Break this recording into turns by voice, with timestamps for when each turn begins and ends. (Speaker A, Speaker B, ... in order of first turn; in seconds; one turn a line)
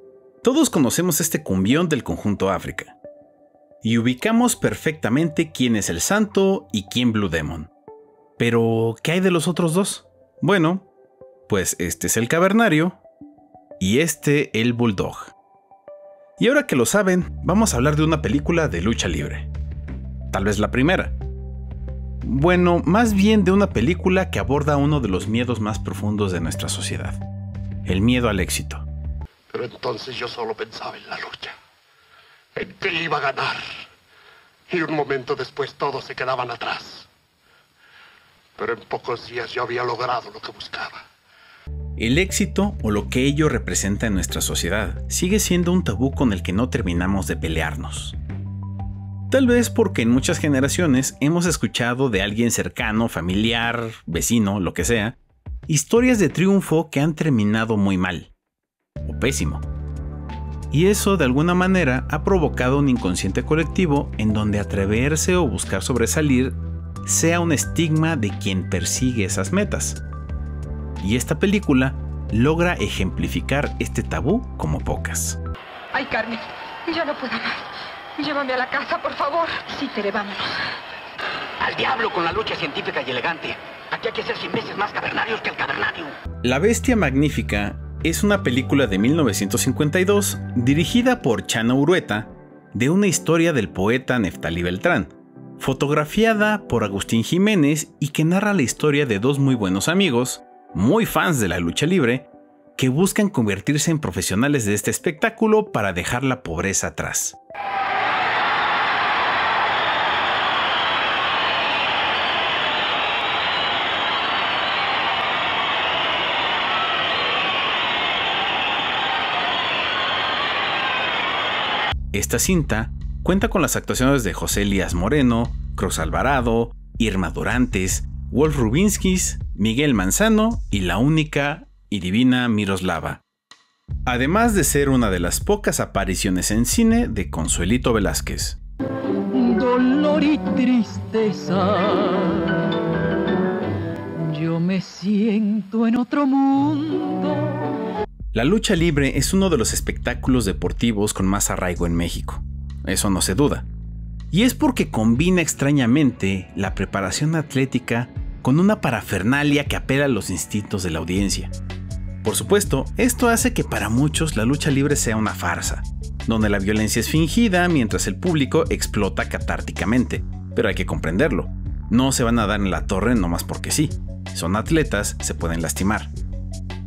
Speaker A: 0.4-3.0
Speaker A: 3.8-7.7
Speaker A: 8.4-10.9
Speaker A: 11.5-13.0
Speaker A: 13.8-15.3
Speaker A: 16.4-19.5
Speaker A: 20.3-21.2
Speaker A: 22.2-27.2
Speaker A: 27.9-28.9
Speaker B: 29.5-31.6
Speaker B: 32.6-33.6
Speaker B: 34.7-37.1
Speaker B: 38.6-41.0
Speaker A: 42.0-48.2
Speaker A: 49.3-58.3
Speaker A: 59.0-59.7
Speaker A: 60.7-70.0
Speaker A: 71.0-75.4
Speaker C: 75.9-79.5
Speaker D: 81.6-86.1
Speaker A: 86.4-107.4
Speaker A: 122.1-133.2
Speaker A: 134.1-138.6
Speaker E: 139.3-142.7
Speaker E: 144.2-147.5
Speaker A: 148.3-153.7
Speaker A: 154.3-161.5
Speaker A: 162.2-176.1